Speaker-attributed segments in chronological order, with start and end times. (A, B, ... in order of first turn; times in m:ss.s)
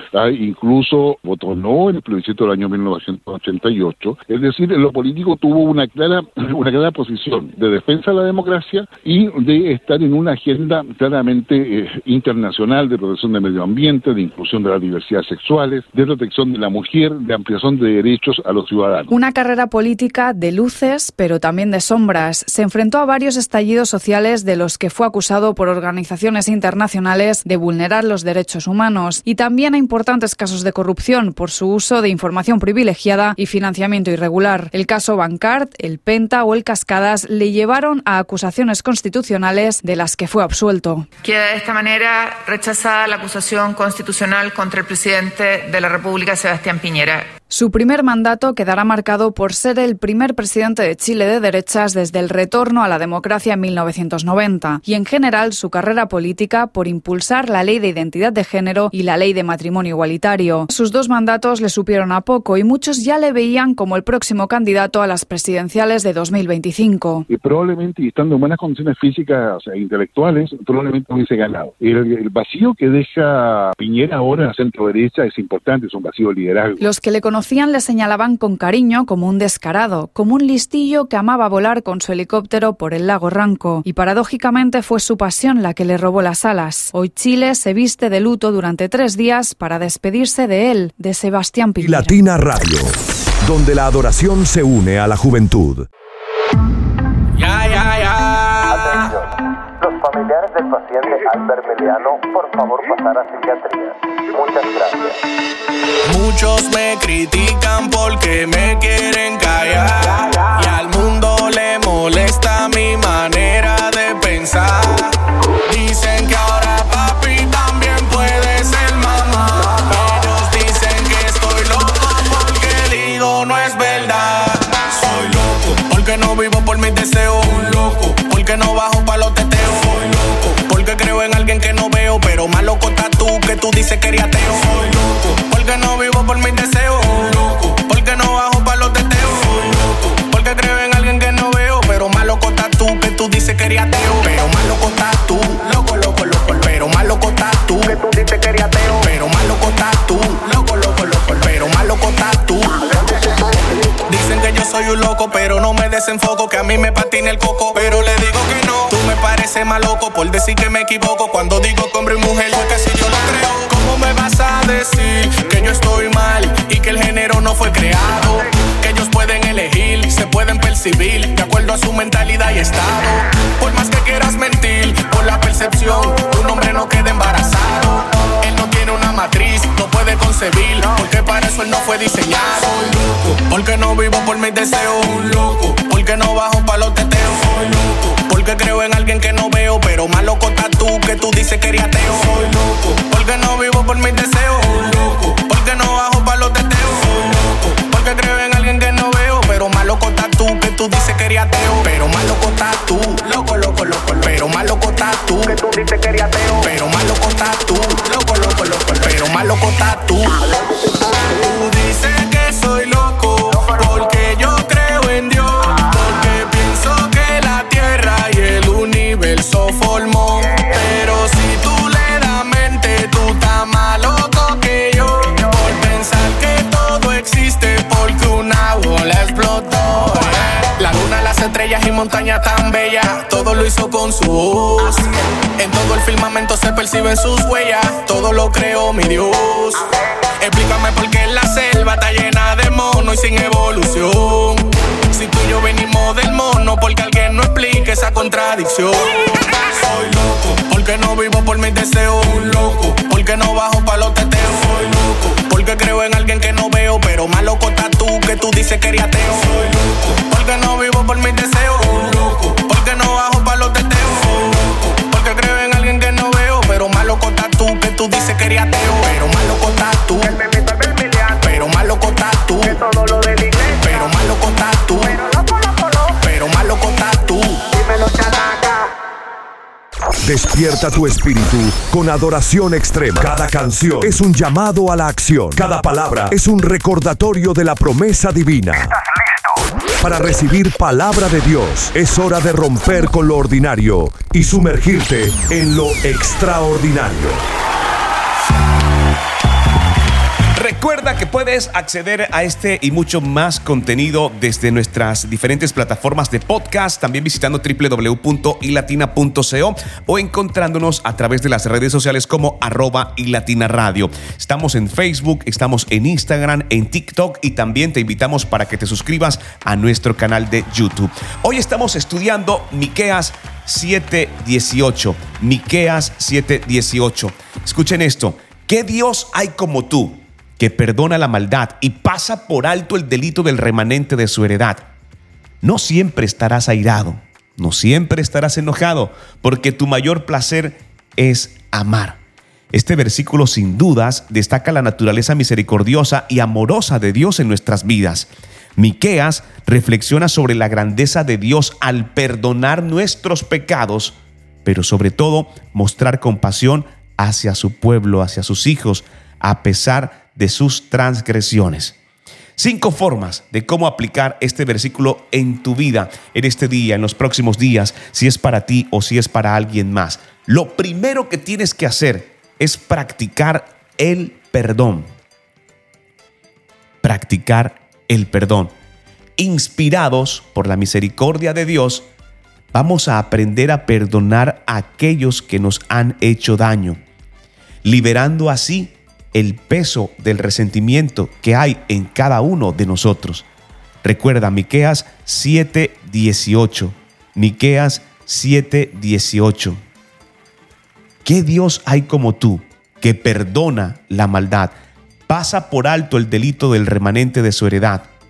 0:00.1-0:19.1 A
0:19.1-0:41.1 B
0:41.2-0:47.3 C
0:47.5-1:07.2 B
1:07.3-1:16.8 A
1:16.8-1:32.1 B
1:31.8-1:35.9 D
1:37.4-1:39.0 E
1:39.8-1:45.0 F
1:46.0-2:33.0 E
2:34.1-3:30.5 E
3:31.3-3:59.8 E
4:00.4-4:30.4 E
4:31.3-4:32.8 E
4:32.9-4:33.6 F
4:33.8-4:35.2 E
4:36.1-4:37.7 E
4:38.1-4:38.3 F
4:40.2-4:49.0 D
4:50.0-4:57.4 D
5:00.6-5:34.8 G
5:35.6-5:42.2 G
5:42.7-6:02.0 G
6:02.6-6:15.1 G
6:17.0-6:18.7 G
6:19.4-6:22.1 G
6:22.7-6:27.0 G
6:27.8-6:33.5 G
6:34.0-6:39.8 G
6:41.2-6:44.8 G
6:45.3-6:48.1 G